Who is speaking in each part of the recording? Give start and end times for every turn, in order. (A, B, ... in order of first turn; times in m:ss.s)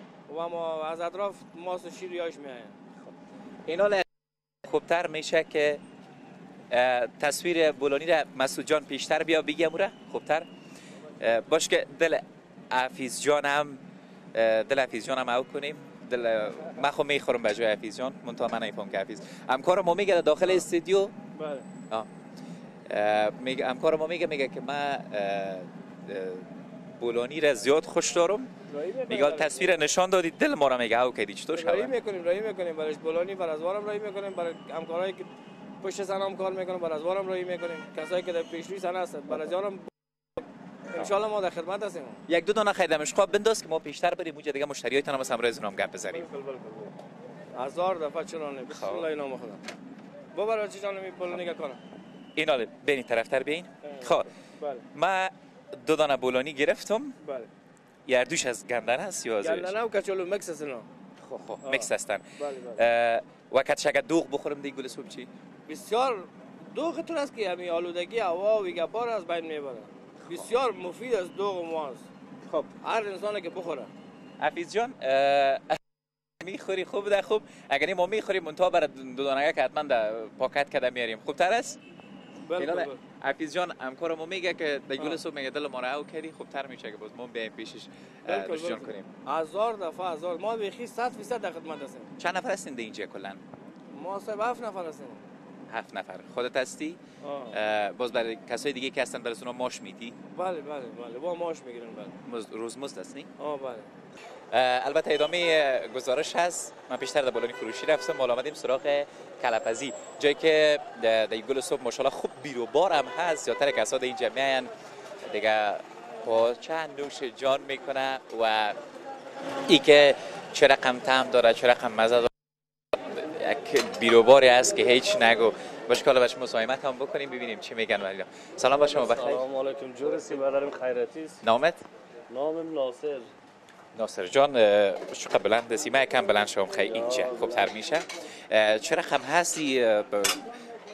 0:00.3-0:02.8 A
0:03.7-0:04.0 B
0:04.6-0:05.8 B
0:06.7-0:10.4 B
0:11.2-0:13.8 B
0:14.3-0:21.1 B
0:21.3-0:21.7 A
0:22.9-0:28.5 B
0:28.7-0:29.7 A
0:29.1-0:31.9 B
0:31.5-0:35.3 A
0:35.8-0:39.9 A
0:40.9-0:42.2 A
0:42.3-0:46.3 B
0:46.3-0:46.9 A
0:47.5-0:49.6 A
0:48.7-0:49.1 B
0:50.3-0:51.8 A
0:52.4-0:54.3 B
0:53.9-0:54.8 A
0:54.9-0:57.2 B
0:57.2-0:57.5 A
0:58.1-0:59.7 B
0:59.4-1:00.8 A
1:01.2-1:05.3 B
1:01.6-1:02.8 A
1:05.7-1:12.0 A
1:12.6-1:13.9 A
1:14.4-1:15.8 B
1:16.4-1:21.8 B
1:22.5-1:23.0 A
1:22.6-1:29.1 B
1:28.3-1:32.1 A
1:32.2-1:33.4 B
1:33.9-1:35.2 A
1:35.7-1:37.0 B
1:37.2-1:37.6 A
1:37.5-1:40.2 B
1:40.3-1:42.1 A
1:42.2-1:43.3 B
1:43.4-1:43.9 A
1:44.5-1:54.7 B
1:55.2-1:58.8 B
1:59.7-2:02.3 B
2:03.0-2:09.4 B
2:09.0-2:11.4 C
2:11.4-2:11.8 B
2:12.3-2:13.3 C
2:13.9-2:20.4 B
2:16.9-2:17.4 C